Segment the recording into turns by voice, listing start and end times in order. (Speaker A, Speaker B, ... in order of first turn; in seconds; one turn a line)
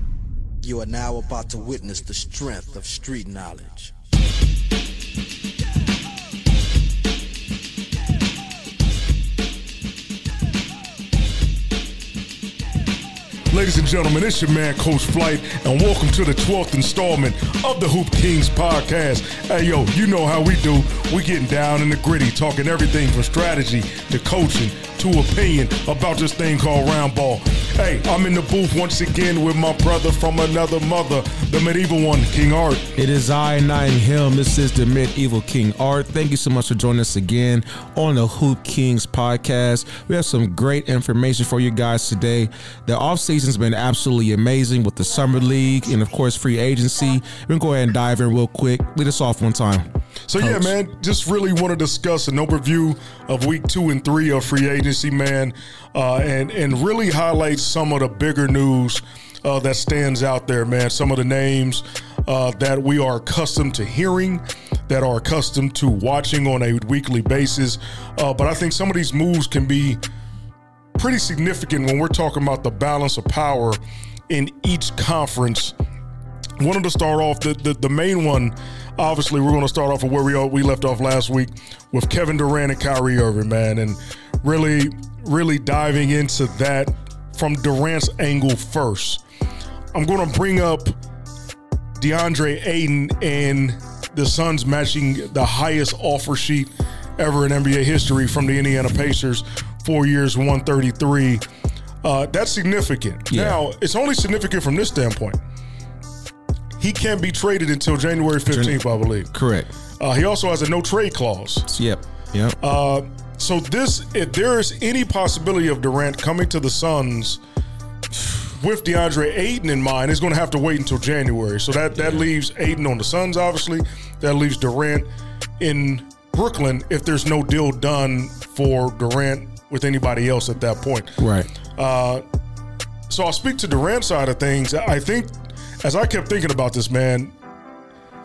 Speaker A: 0.6-3.9
Speaker B: 13.5-32.9
Speaker C: 33.0-50.7
Speaker B: 50.3-70.0
Speaker B: 71.0-75.8
Speaker B: 76.6-89.2
Speaker B: 89.9-91.0
Speaker B: 92.0-101.4
Speaker B: 102.0-105.4
Speaker C: 103.3-103.6
Speaker B: 106.8-109.3
Speaker C: 108.5-109.7
Speaker B: 110.0-111.7
Speaker C: 111.7-112.6
Speaker B: 112.6-117.4
Speaker B: 118.5-125.1
Speaker C: 122.0-122.2
Speaker B: 125.6-131.2
Speaker C: 131.2-131.5
Speaker B: 131.8-132.2
Speaker B: 133.1-137.3